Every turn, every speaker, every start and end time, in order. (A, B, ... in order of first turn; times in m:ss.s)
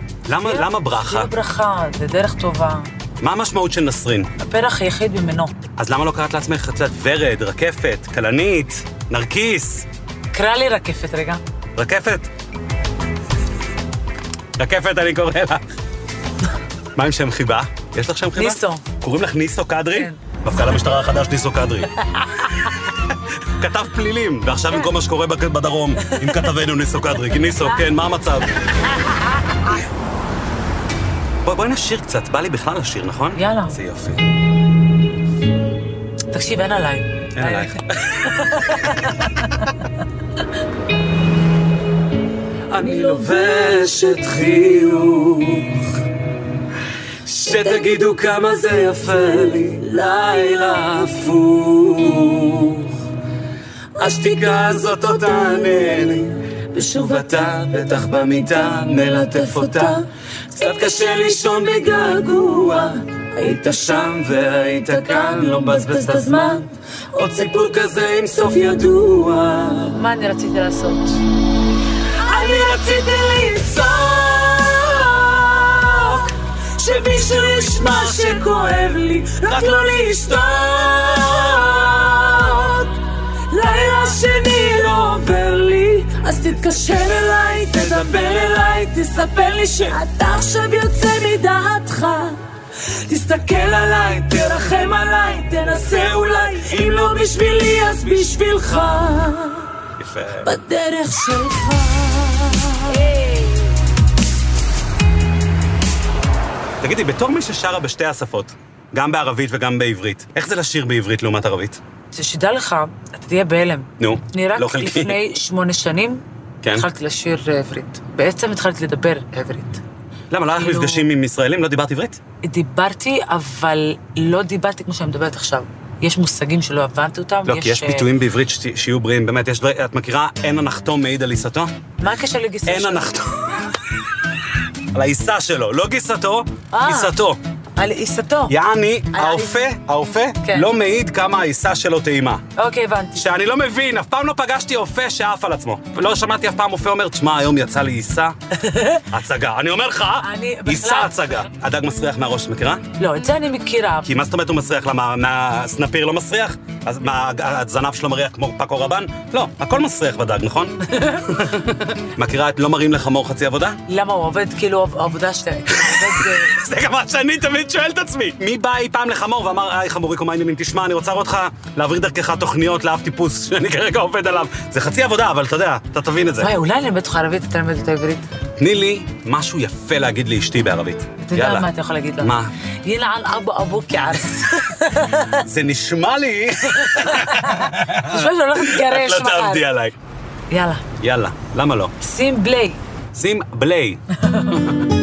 0:00.3-0:01.3 A
0:00.4-0:02.9 B
0:03.2-0:04.3 A
0:04.4-0:05.6 B
0:05.8-0:09.9 A
0:10.3-0:11.4 B
0:11.8-0:12.3 A
0:14.6-0:15.6 A
0:17.0-0:21.9 A
0:18.4-0:18.8 B
0:19.9-0:20.2 B
0:22.1-0:22.5 B
0:22.5-0:28.5 A
0:26.0-0:26.4 B
0:31.4-0:34.2 A
0:33.4-0:33.8 B
0:36.3-0:39.7 B
0:37.3-0:39.2 A
0:42.7-0:46.0 A
0:47.2-0:53.0 A
0:54.0-1:10.0 A
0:56.8-0:57.7 B
0:58.7-1:00.0 B
1:04.8-1:06.7 B
1:09.9-1:11.2 B
1:12.2-1:23.0 A
1:12.5-1:13.0 B
1:17.6-1:19.8 B
1:23.5-1:37.1 B
1:25.0-1:25.4 A
1:26.7-1:28.9 A
1:33.6-1:34.6 A
1:35.6-1:38.4 A
1:37.9-1:39.7 B
1:40.0-1:40.5 A
1:40.4-1:43.4 B
1:46.8-1:51.8 A
1:52.1-1:56.2 B
1:54.0-1:55.2 A
1:56.6-1:56.9 A
1:56.7-1:59.8 B
2:00.3-2:02.2 A
2:00.5-2:01.1 B
2:02.4-2:08.1 B
2:07.5-2:11.7 A
2:12.0-2:13.4 B
2:12.7-2:13.7 A
2:14.9-2:17.4 A
2:16.7-2:17.2 B
2:17.8-2:18.5 B
2:18.5-2:22.4 A
2:19.1-2:19.6 B
2:20.4-2:20.7 B
2:22.6-2:23.3 B
2:23.2-2:28.4 A
2:28.5-2:29.1 B
2:29.1-2:32.8 A
2:30.2-2:31.5 B
2:33.0-2:34.1 B
2:34.0-2:43.8 A
2:40.9-2:41.3 B
2:43.9-2:46.6 B
2:45.8-2:56.5 A
2:56.4-2:58.2 B
2:58.6-3:01.7 A
3:01.2-3:05.4 B
3:02.2-3:02.5 A
3:05.3-3:10.0 A
3:06.7-3:09.6 B
3:10.5-3:10.8 B
3:11.0-3:11.9 A
3:12.0-3:12.8 B
3:13.1-3:14.0 A
3:14.2-3:14.7 B